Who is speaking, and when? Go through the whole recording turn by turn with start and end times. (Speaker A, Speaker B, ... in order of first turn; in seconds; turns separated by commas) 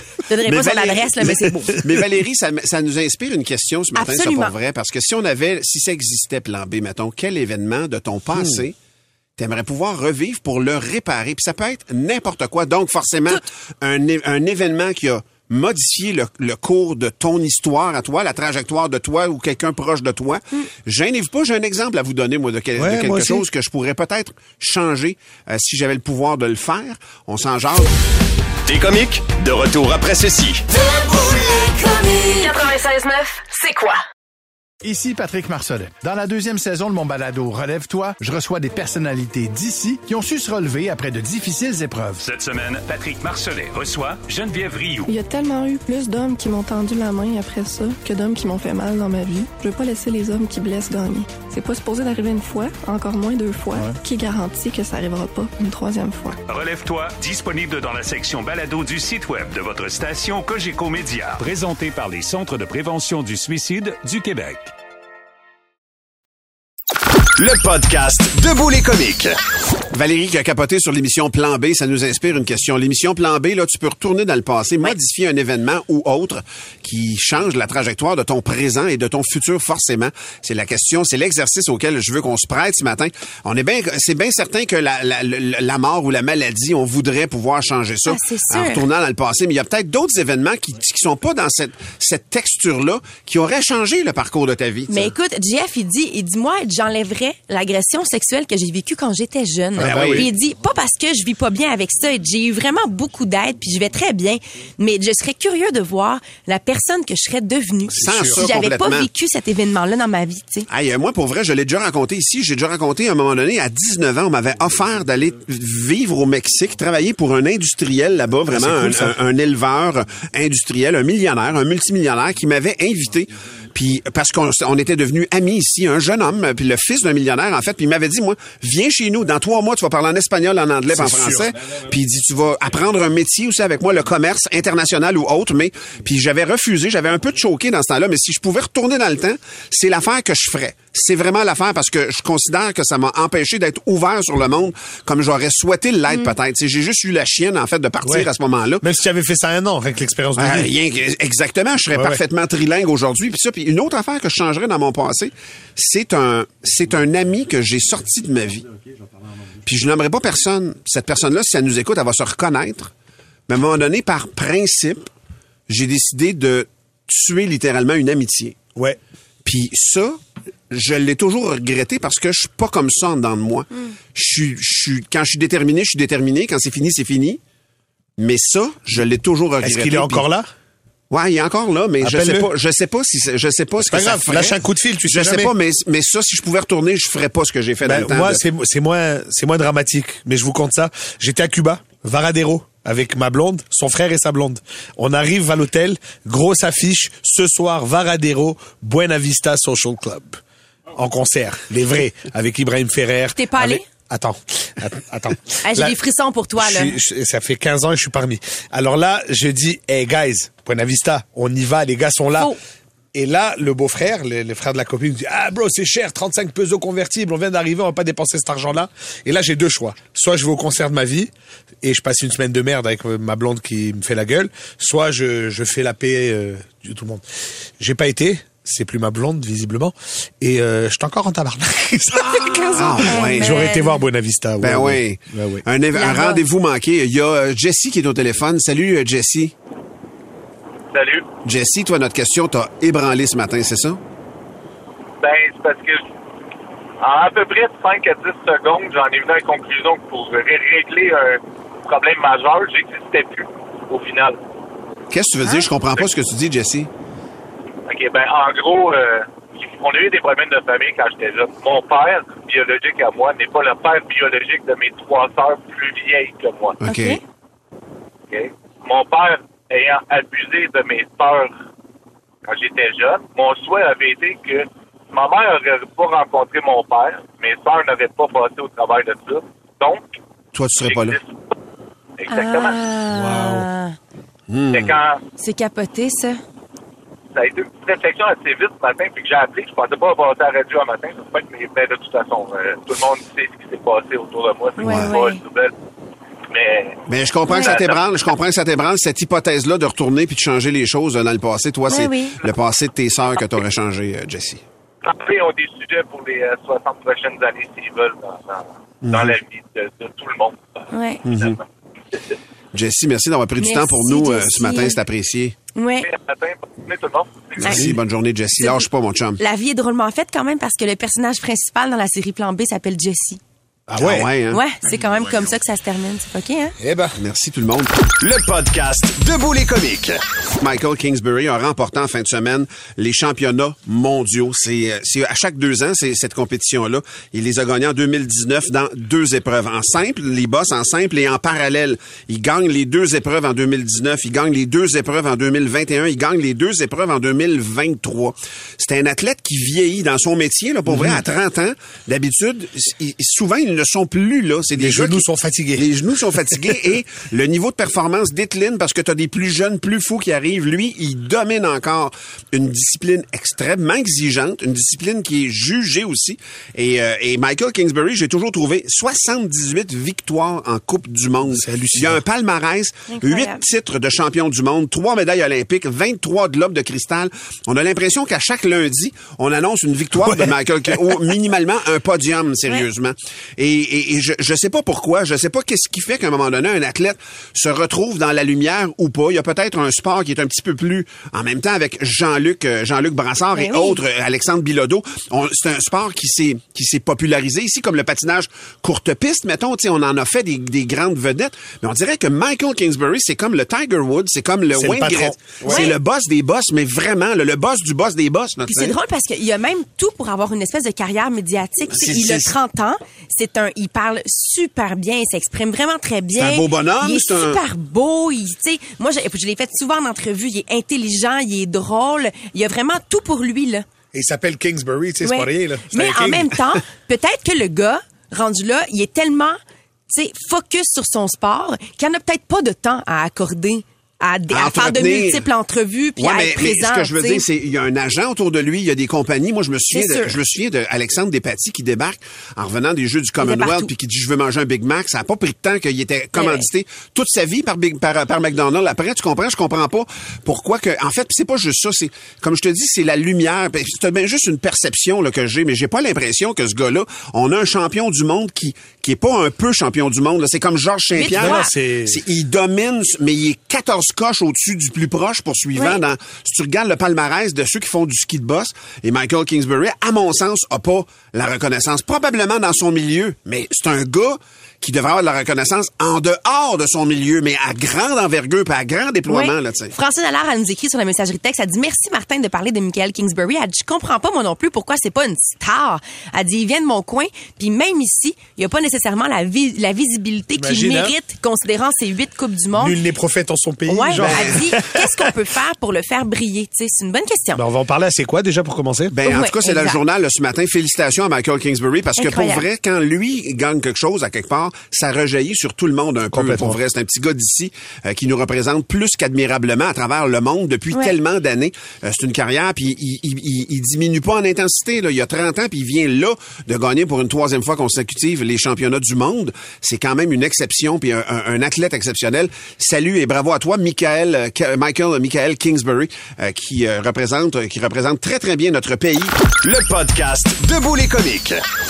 Speaker A: 0.3-1.8, Speaker B: 0.5-8.7, Speaker A: 4.0-4.5, Speaker B: 9.4-27.9, Speaker C: 22.8-23.4, Speaker D: 28.6-30.6, Speaker E: 30.8-34.0, Speaker F: 34.8-42.2, Speaker G: 42.2-45.1, Speaker H: 45.1-56.4, Speaker G: 56.5-64.7, Speaker D: 67.4-69.3, Speaker B: 69.9-95.1, Speaker A: 88.0-88.8, Speaker A: 94.9-110.7, Speaker C: 99.8-100.3, Speaker B: 99.8-100.3, Speaker C: 108.0-108.4, Speaker B: 108.0-109.1, Speaker B: 110.7-148.8, Speaker C: 118.5-119.2, Speaker C: 130.9-131.5, Speaker C: 148.0-150.7, Speaker B: 150.4-158.7, Speaker C: 151.9-152.2, Speaker B: 159.6-162.9, Speaker B: 163.5-165.1, Speaker B: 165.7-168.6, Speaker B: 169.4-170.2, Speaker B: 170.7-177.4, Speaker B: 178.2-180.2, Speaker C: 179.6-180.5, Speaker B: 181.1-188.4, Speaker C: 182.0-182.5, Speaker C: 183.8-185.5, Speaker C: 187.8-200.4, Speaker C: 200.9-205.9, Speaker A: 203.3-203.8, Speaker A: 205.6-206.9, Speaker C: 206.6-212.5, Speaker C: 213.1-221.3, Speaker C: 221.8-227.2, Speaker C: 227.8-235.6, Speaker A: 232.3-234.0, Speaker B: 232.7-233.6, Speaker B: 234.6-239.5, Speaker A: 235.9-236.4, Speaker I: 240.9-241.3, Speaker B: 241.4-244.0, Speaker I: 245.2-246.0, Speaker I: 247.0-254.4, Speaker B: 255.1-256.9, Speaker I: 257.9-266.8, Speaker B: 266.8-267.2, Speaker A: 266.8-267.2, Speaker I: 268.3-271.5, Speaker I: 272.4-280.1, Speaker B: 280.5-281.2, Speaker I: 280.8-281.3, Speaker I: 282.2-282.8, Speaker A: 282.3-284.0, Speaker C: 283.1-283.7, Speaker B: 284.5-285.0, Speaker I: 284.7-285.2, Speaker A: 285.4-286.4, Speaker I: 287.3-295.7, Speaker A: 294.8-295.4, Speaker B: 294.9-295.1, Speaker I: 296.5-298.0, Speaker B: 297.1-304.6, Speaker A: 297.5-297.8, Speaker A: 301.9-302.4, Speaker I: 305.0-311.6, Speaker B: 309.0-309.4, Speaker A: 310.9-311.2, Speaker B: 311.2-311.6, Speaker B: 312.7-315.6, Speaker A: 313.6-315.0, Speaker A: 315.7-316.1, Speaker I: 316.0-317.6, Speaker B: 317.6-319.4, Speaker C: 317.6-318.0, Speaker A: 318.6-318.9, Speaker A: 319.4-323.4, Speaker C: 323.9-324.3, Speaker B: 323.9-324.6, Speaker A: 324.5-326.7, Speaker C: 326.8-327.1, Speaker B: 327.2-327.9, Speaker D: 328.2-330.2, Speaker B: 330.6-355.2, Speaker C: 350.9-351.2, Speaker C: 354.7-355.9, Speaker B: 355.8-408.9, Speaker C: 371.5-372.2, Speaker A: 373.1-373.6, Speaker C: 380.2-381.1, Speaker A: 393.5-394.0, Speaker C: 404.7-405.9, Speaker A: 405.6-405.9, Speaker A: 408.7-423.9, Speaker B: 411.9-412.5, Speaker B: 416.4-417.6, Speaker C: 424.1-426.6, Speaker A: 425.2-429.6, Speaker A: 430.1-437.4, Speaker B: 434.5-435.5, Speaker B: 436.2-479.9, Speaker A: 439.9-440.4, Speaker A: 443.4-443.9, Speaker A: 446.3-446.6, Speaker A: 461.1-461.7, Speaker C: 461.3-462.2, Speaker A: 465.8-466.0, Speaker A: 479.3-493.0, Speaker C: 490.5-491.1, Speaker C: 492.8-495.2, Speaker A: 493.9-497.6, Speaker B: 494.1-494.5, Speaker C: 497.5-499.1, Speaker B: 499.1-529.3, Speaker A: 499.2-500.0, Speaker A: 502.2-502.6, Speaker C: 506.3-506.8, Speaker D: 529.6-531.6